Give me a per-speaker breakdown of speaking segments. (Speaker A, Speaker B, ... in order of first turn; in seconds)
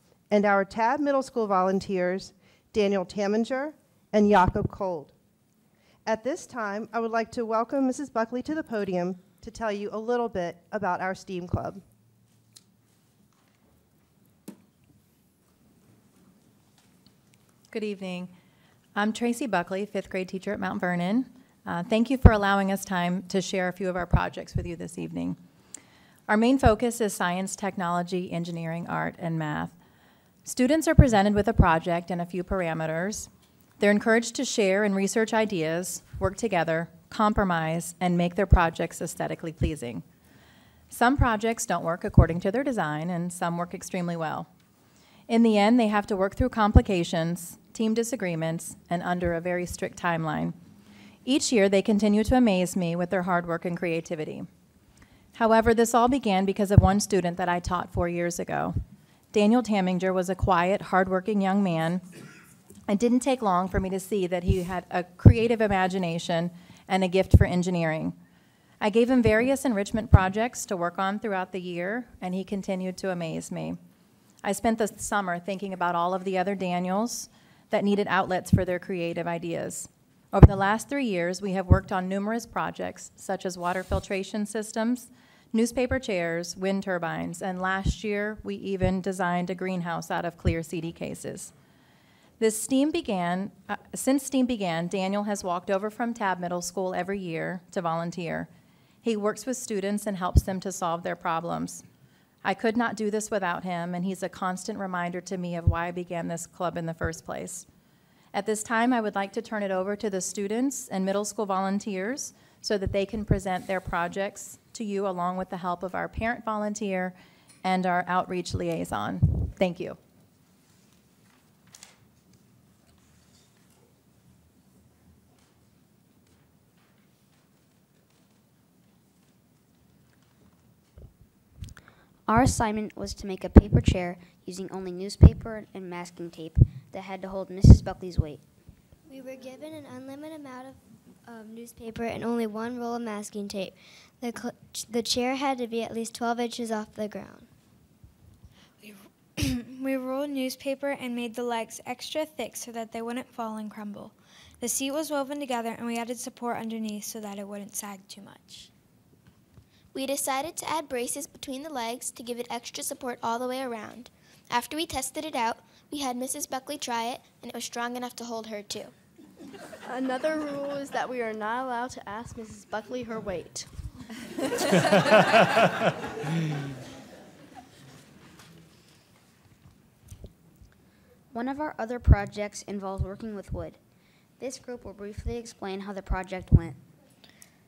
Speaker A: 0.3-5.1, 6.0-11.8
Speaker B: 17.7-18.3, 18.9-25.4, 26.3-29.7, 30.4-33.3, 33.8-40.0, 40.9-44.5, 45.3-50.5, 51.2-54.5, 55.3-58.8, 59.3-62.0, 62.9-68.1, 68.8-73.8, 74.4-91.5, 92.4-98.5, 99.0-101.8, 102.4-107.7, 108.3-120.0
Speaker C: 132.3-138.4, 181.3-183.8, 184.4-186.8
Speaker D: 139.1-147.5
Speaker E: 148.8-158.7
Speaker F: 159.9-168.9
Speaker G: 169.8-173.7